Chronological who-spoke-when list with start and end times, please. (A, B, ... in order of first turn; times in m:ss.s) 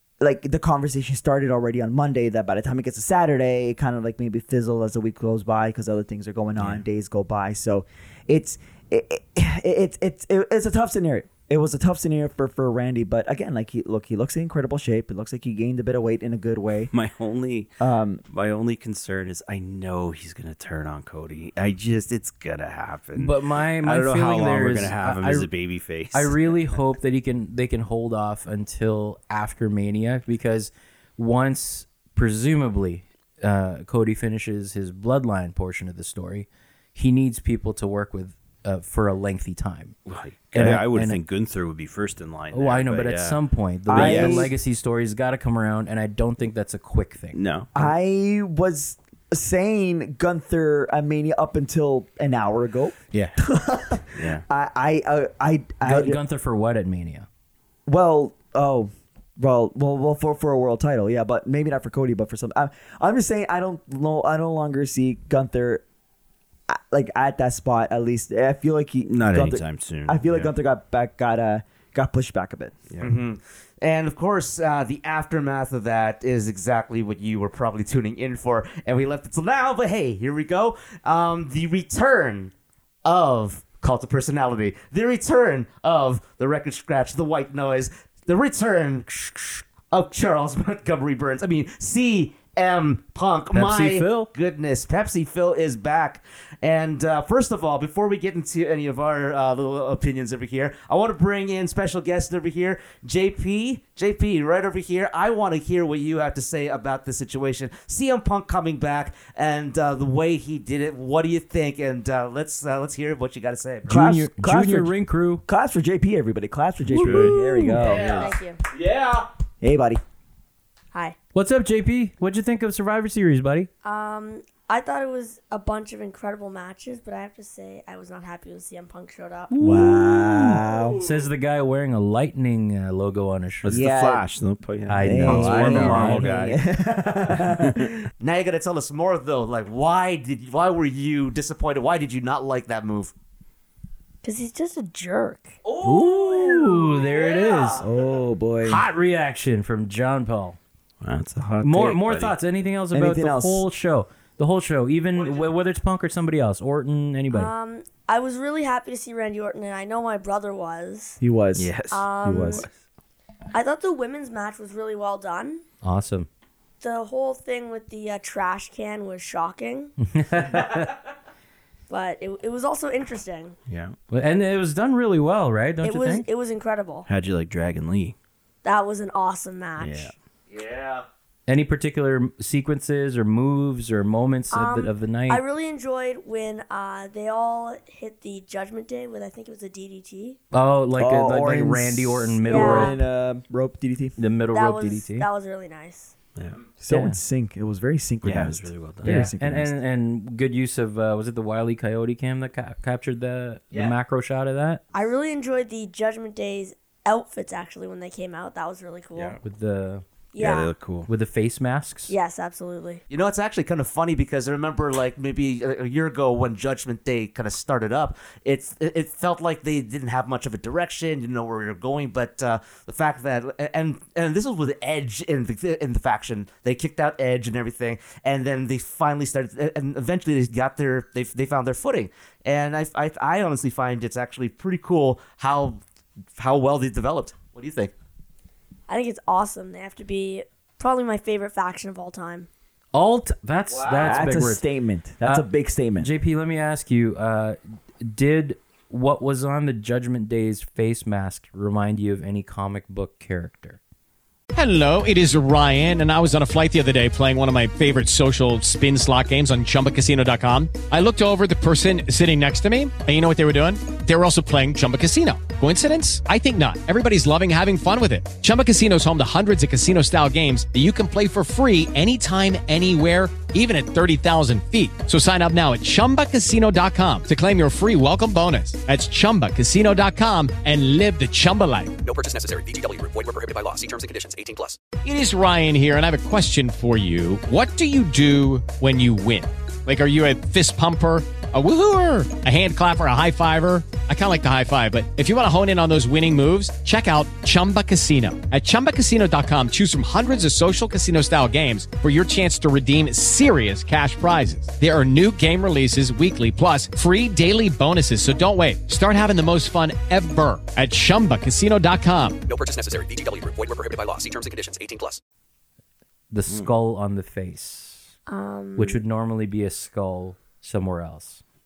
0:00.2-0:16.9 A
0:06.6-0:06.8 B
0:16.9-0:17.7 B
0:17.8-0:18.2 A
0:18.3-0:26.5 B
0:23.2-0:25.5 C
0:26.1-0:40.0 C
0:40.1-0:44.5 B
0:40.5-0:41.2 C
0:42.5-0:47.4 C
0:43.9-0:44.5 A
0:47.3-0:47.9 B
0:47.8-0:56.2 A
0:54.2-0:54.4 B
0:55.8-0:57.3 C
0:57.9-1:05.8 A
1:06.7-1:12.8 A
1:09.0-1:10.5 B
1:12.9-1:13.2 B
1:13.0-1:22.5 D
1:23.0-1:54.0 D
1:33.5-1:34.3 C
1:53.9-1:55.4 C
1:53.9-1:58.3 A
1:56.9-1:58.2 C
1:57.0-1:57.3 B
1:57.8-1:59.3 D
1:58.2-1:58.6 E
1:59.6-2:00.0 A
2:01.3-2:03.7 C
2:03.8-2:09.6 E
2:09.5-2:13.8 C
2:09.6-2:11.0 A
2:13.6-2:18.0 B
2:13.7-2:14.3 A
2:14.9-2:16.3 C
2:15.0-2:18.0 A
2:18.2-2:23.1 D
2:24.2-2:25.6 E
2:25.8-2:27.8 C
2:26.6-2:27.6 D
2:27.8-2:28.8 A
2:28.6-2:30.6 C
2:31.0-2:32.4 B
2:31.6-2:37.5 C
2:32.9-2:33.6 A
2:37.3-2:41.2 E
2:41.2-2:42.7 A
2:41.6-2:42.7 B
2:41.9-2:42.7 E
2:43.5-2:45.6 E
2:45.8-2:46.3 C
2:46.8-2:49.9 E
2:50.0-2:50.9 C
2:51.9-2:53.6 E
2:53.7-2:54.0 B
2:54.1-2:56.3 C
2:55.8-2:57.1 E
2:57.1-2:58.2 B
2:58.6-3:00.1 E
2:59.8-3:00.1 B
3:00.5-3:01.0 D
3:01.5-3:05.4 C
3:04.5-3:10.4 E
3:10.5-3:13.0 C
3:11.0-3:14.2 A
3:12.5-3:13.0 E
3:14.2-3:15.3 C
3:14.5-3:16.1 E
3:16.8-3:19.7 A
3:16.9-3:17.2 C
3:18.2-3:19.3 B
3:19.0-3:24.8 C
3:24.9-3:29.4 E
3:29.1-3:29.4 B
3:29.4-3:30.0 C
3:30.3-3:30.7 E
3:30.4-3:31.1 B
3:31.1-3:32.1 C
3:32.1-3:33.0 E
3:33.1-3:55.8 D
3:56.4-3:57.9 D
3:58.9-4:02.5 E
4:02.9-4:04.6 C
4:03.9-4:06.1 A
4:06.0-4:13.8 C
4:14.5-4:42.0 F
4:42.0-4:44.8 G
4:45.0-5:12.4 F
5:12.5-5:15.2 G
5:16.3-5:18.1 C
5:18.3-5:19.0 E
5:18.8-5:21.4 C